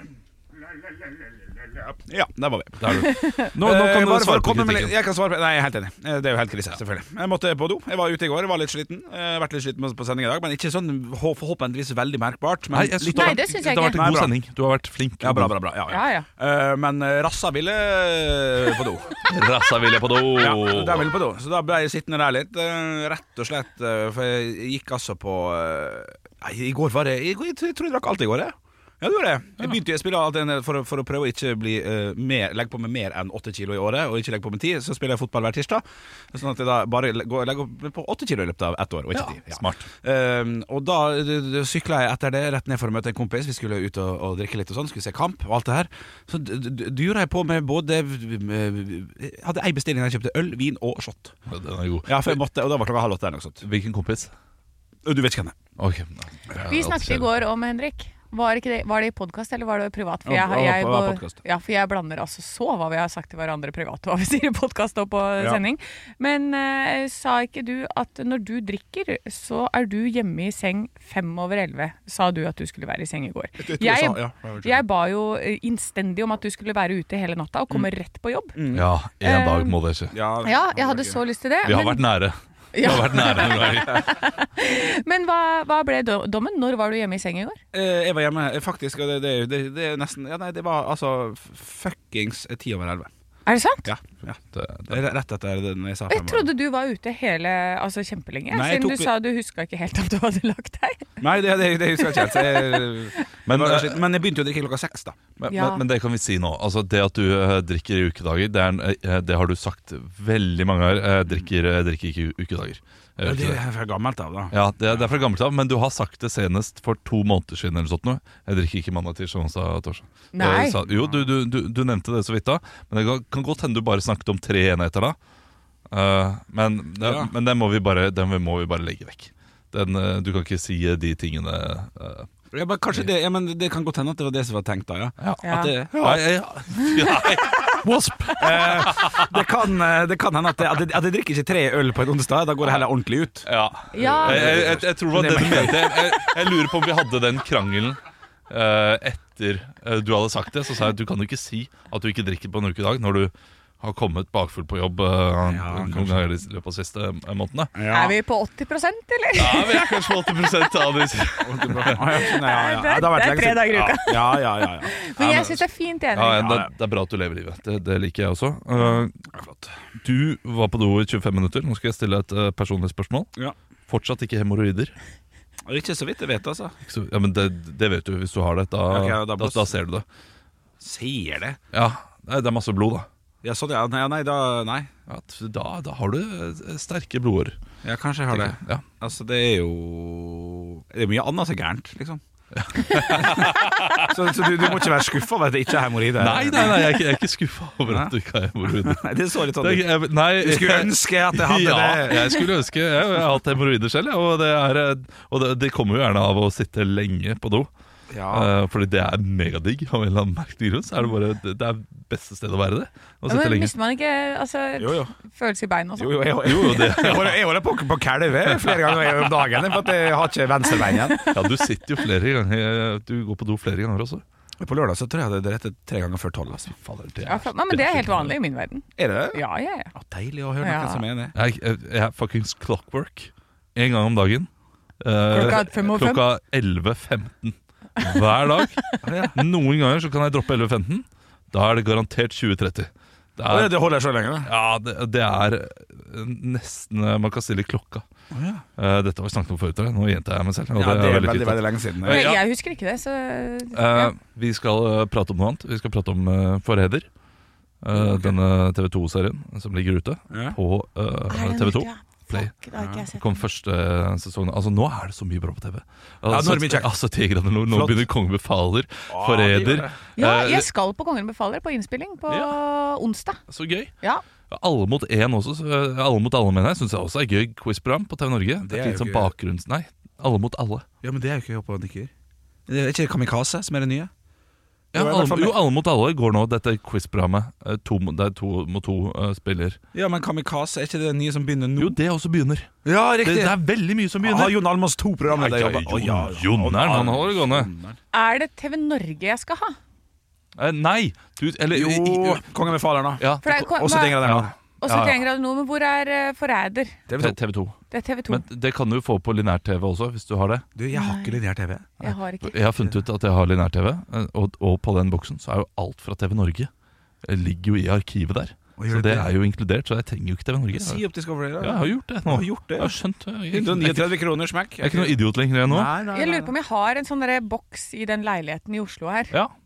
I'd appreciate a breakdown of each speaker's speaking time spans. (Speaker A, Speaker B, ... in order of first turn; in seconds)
Speaker A: 1.9-14.3, 15.2-19.1, 20.3-51.4, 52.0-53.6, 55.0-55.5, 60.2-61.4, 73.6-74.8, 78.5-78.9, 80.1-81.2, 87.7-93.1, 93.8-96.5, 98.5-99.1, 101.2-105.8, 113.2-115.1, 120.9-121.2, 127.0-127.3, 132.5-136.2, 138.4-146.2, 155.4-156.2, 157.7-158.2, 161.4-164.9, 166.3-166.7, 169.3-169.7, 175.7-176.7, 178.9-179.7, 180.8-181.6, 183.4-184.9, 187.8-192.2, 193.1-196.9, 197.9-198.1, 198.6-202.4, 208.1-208.5, 214.8-215.1, 216.0-221.2, 224.6-226.7, 229.0-231.3, 239.0-239.4, 243.5-244.5, 248.3-248.6, 250.7-252.3, 257.9-258.4, 260.3-260.6, 266.3-266.9, 267.7-268.1, 269.1-269.9, 278.6-279.3, 281.0-282.1, 282.7-284.1, 284.9-285.6, 289.9-292.0, 292.8-293.6, 294.2-298.0, 301.7-304.5, 307.1-307.4, 310.8-311.9, 318.8-319.3, 320.7-322.9, 323.5-326.5
Speaker B: 2.8-4.9, 12.7-15.5, 19.2-21.1, 39.1-39.9, 51.5-52.4, 53.6-54.3, 55.8-57.3, 78.7-80.1, 81.6-84.0, 94.5-95.0, 103.5-104.0, 105.6-113.6, 114.5-125.2, 125.9-132.3, 135.2-139.4, 143.4-157.7, 159.3-162.0, 165.2-165.6, 166.1-169.2, 170.0-173.3, 173.9-174.9, 176.8-180.0, 181.7-183.1, 185.1-187.6, 188.3-188.8, 192.6-194.9, 196.2-199.1, 199.6-207.7, 208.3-213.7, 216.4-217.4, 218.6-218.8, 221.3-224.2, 226.8-228.3, 231.3-234.5, 235.0-238.8, 239.3-243.7, 244.4-248.0, 248.8-252.4, 253.7-257.1, 257.8-270.7, 272.3-272.6, 273.5-273.9, 274.5-280.9, 284.9-289.8, 291.8-294.7, 295.3-297.7, 300.6-302.5, 303.2-303.5, 304.2-305.2, 307.2-307.8, 308.3-310.6, 312.0-316.7, 317.2-321.0, 321.6-324.2, 324.8-325.9
Speaker C: 3.0-3.5, 13.1-14.1, 15.9-16.2, 56.7-78.6, 79.2-79.8, 80.4-82.0, 82.7-87.6, 93.5-93.9, 96.1-101.2, 102.0-103.2, 105.5-105.8, 120.3-120.8, 135.4-135.7, 143.9-144.4, 157.9-160.7, 162.1-166.5, 213.3-216.8, 220.8-221.4, 227.2-229.9, 230.6-231.0, 235.3-236.2, 238.0-239.0, 252.0-254.1, 261.3-263.4, 270.2-273.4, 298.1-299.8, 303.4-304.2, 304.8-307.0, 307.9-308.4, 310.9-311.4, 312.0-312.6, 326.1-329.3